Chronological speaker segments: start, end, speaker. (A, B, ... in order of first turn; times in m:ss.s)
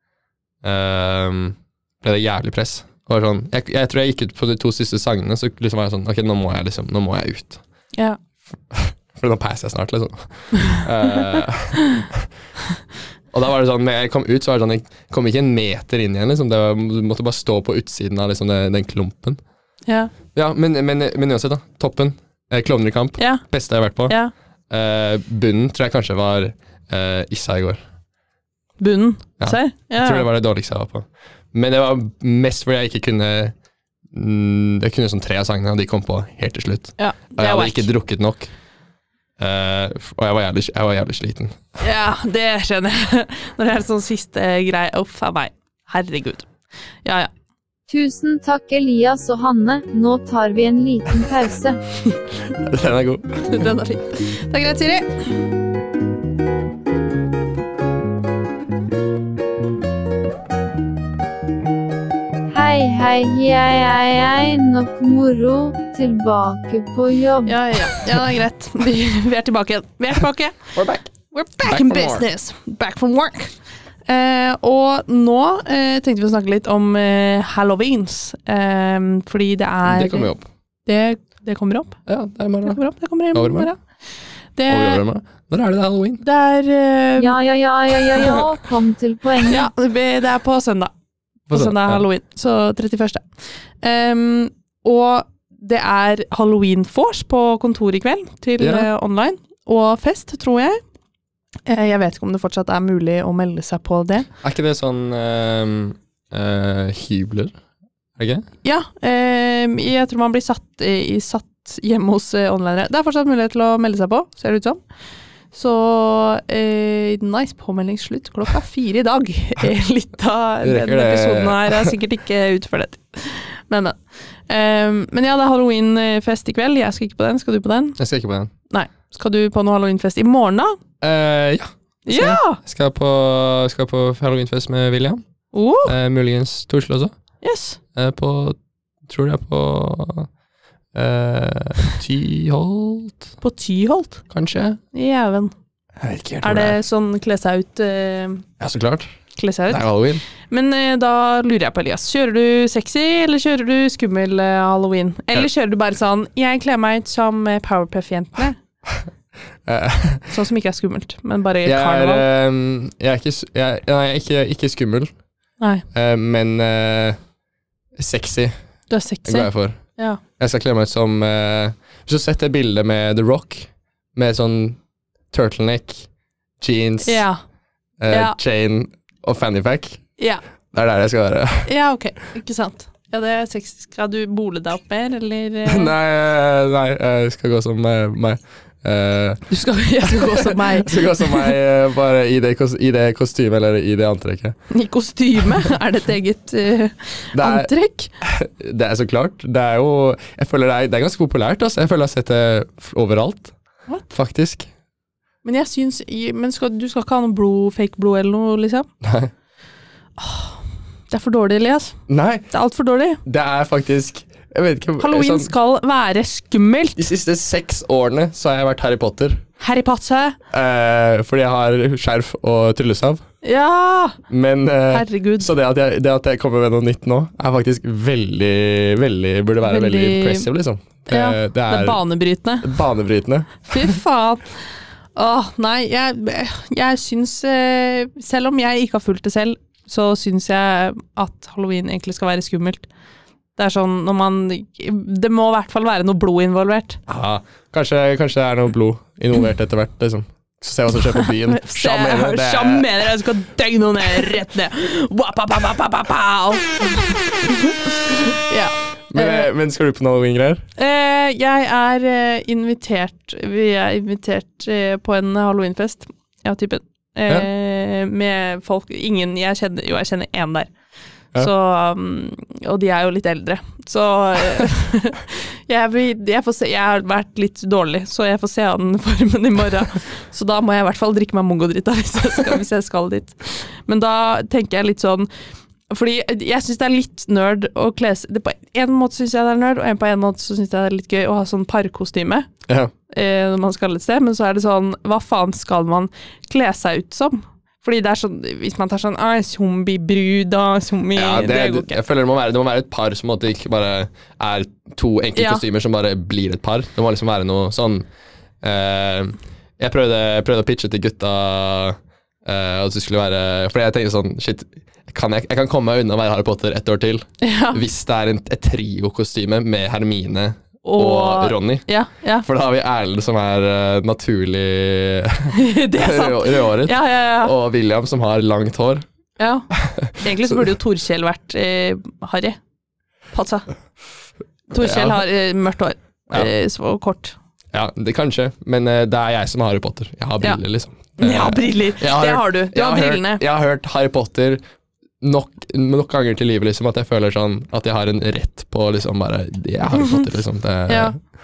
0:00.6-0:07.6 A
0:08.7-0:12.3 A
0:13.3-0:19.4 A
0:19.9-0:20.1 B
0:20.3-0:24.2 A
0:23.2-0:23.4 B
0:24.1-0:24.3 B
0:24.7-0:27.8 A
0:28.8-0:30.3 B
0:29.4-0:33.6 A
0:34.1-0:38.5 A
0:37.0-0:37.9 B
0:39.4-0:41.6 A
0:41.8-0:46.5 B
0:47.0-0:47.3 B
0:47.9-0:51.8 C
0:52.5-0:53.7 A
0:53.4-0:55.3 B
1:02.5-1:07.6 C
1:07.5-1:10.7 B
1:10.8-1:11.1 A
1:11.3-1:13.6 B
1:11.6-1:12.3 A
1:14.1-1:20.3 B
1:19.9-1:20.5 A
1:20.9-1:22.0 B
1:22.1-1:22.8 A
1:22.6-1:23.8 B
1:23.3-1:23.7 A
1:24.6-1:25.0 B
1:24.7-1:26.2 A
1:26.2-1:27.4 B
1:27.2-1:29.7 C
1:28.1-1:28.4 B
1:29.5-1:30.9 B
1:31.5-1:33.2 B
1:31.5-1:32.0 A
1:33.8-1:40.8 B
1:38.6-1:38.9 A
1:41.7-1:44.3 B
1:44.4-1:47.6 A
1:48.2-1:48.4 A
1:48.6-1:54.8 B
1:55.5-2:08.0 B
2:00.6-2:02.0 A
2:08.0-2:08.5 A
2:08.7-2:10.8 B
2:11.0-2:15.2 A
2:12.1-2:12.6 B
2:15.5-2:15.9 B
2:15.8-2:17.1 A
2:17.4-2:17.8 B
2:18.0-2:20.3 A
2:20.9-2:23.3 A
2:23.4-2:24.2 B
2:24.3-2:24.8 A
2:24.9-2:25.5 B
2:26.0-2:26.8 A
2:26.4-2:28.5 B
2:28.6-2:29.1 A
2:29.4-2:29.9 B
2:29.7-2:30.2 A
2:30.5-2:38.6 B
2:39.6-2:40.3 A
2:40.3-2:42.2 B
2:41.6-2:45.1 A
2:45.9-2:47.2 A
2:48.0-2:48.6 A
2:48.9-2:50.2 B
2:49.2-2:49.8 A
2:50.4-2:54.8 A
2:55.3-2:56.1 A
2:56.6-2:57.2 A
2:57.0-2:57.4 B
2:58.0-3:00.0 A
2:58.1-2:58.4 B
3:00.7-3:01.7 A
3:01.6-3:05.9 B
3:05.7-3:09.4 A
3:09.5-3:11.5 B
3:10.1-3:14.6 A
3:14.7-3:18.1 B
3:17.3-3:17.7 A
3:18.2-3:23.5 A
3:24.1-3:24.7 A
3:25.4-3:28.9 B
3:29.0-3:29.3 A
3:30.2-3:32.0 B
3:32.1-3:32.5 A
3:32.5-3:33.2 B
3:33.2-3:35.5 A
3:35.0-3:37.0 B
3:37.0-3:39.4 A
3:39.6-3:40.4 B
3:40.5-3:43.2 A
3:43.4-3:44.2 B
3:44.3-3:52.0 A
3:44.9-3:45.5 B
3:49.6-3:50.5 B
3:51.1-3:52.7 B
3:52.6-3:54.0 A
3:53.7-3:54.6 B
3:55.2-4:02.9 B
4:03.6-4:07.0 B
4:07.1-4:12.9 A
4:11.2-4:19.5 B
4:19.1-4:20.6 A
4:20.8-4:30.7 B
4:31.4-4:45.3 B
4:45.9-4:52.5 B
4:53.1-5:02.0 B
5:01.2-5:08.1 A
5:05.4-5:05.6 B
5:08.6-5:21.9 A
5:17.4-5:17.8 B
5:20.8-5:22.5 B
5:22.4-5:29.0 A
5:25.5-5:27.5 B
5:29.4-5:32.6 B
5:29.7-5:30.6 A
5:33.3-5:33.7 B
5:34.7-5:37.4 B
5:34.8-5:35.2 A
5:37.7-5:44.6 A
5:41.2-5:43.4 B
5:45.2-5:51.2 A
5:50.0-5:50.2 B
5:50.9-5:51.2 B